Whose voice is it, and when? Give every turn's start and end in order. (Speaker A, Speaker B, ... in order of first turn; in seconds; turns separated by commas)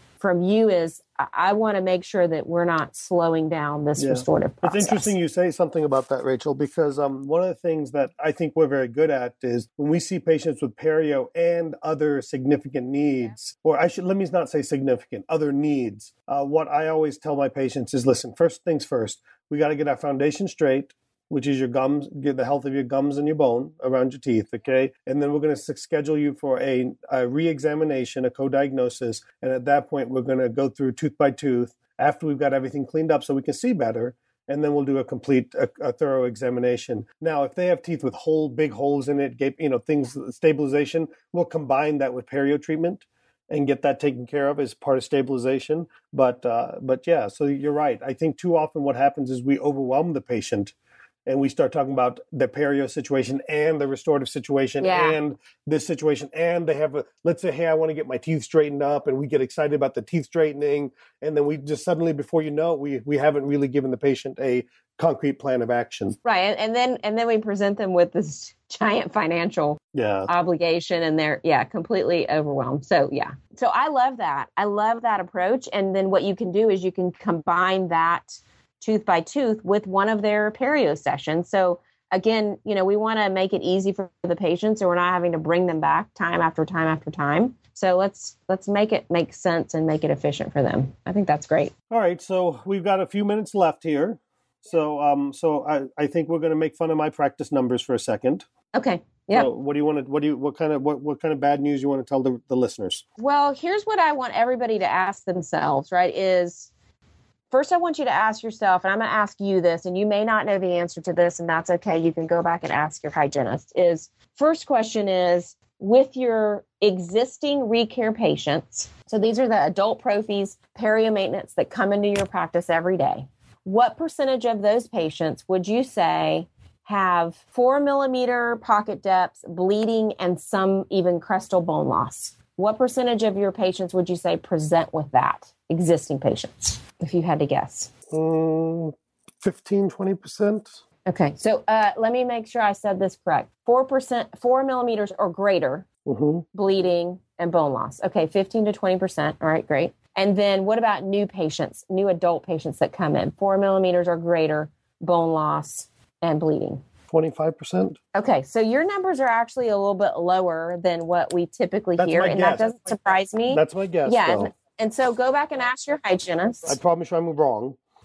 Speaker A: 0.2-5.1, Speaker B: 4.0-50.8, Speaker B: 51.3-66.2, Speaker A: 54.8-55.2, Speaker A: 66.2-91.7, Speaker B: 69.9-70.3, Speaker B: 91.9-98.5, Speaker A: 98.7-99.5, Speaker B: 99.3-103.0, Speaker A: 103.2-106.7, Speaker A: 107.5-137.9, Speaker B: 138.1-140.8, Speaker A: 141.1-145.9, Speaker B: 146.1-146.4, Speaker A: 146.5-156.8, Speaker B: 157.1-158.0, Speaker A: 158.1-166.8, Speaker B: 162.0-162.7, Speaker B: 163.5-164.5, Speaker B: 166.7-167.8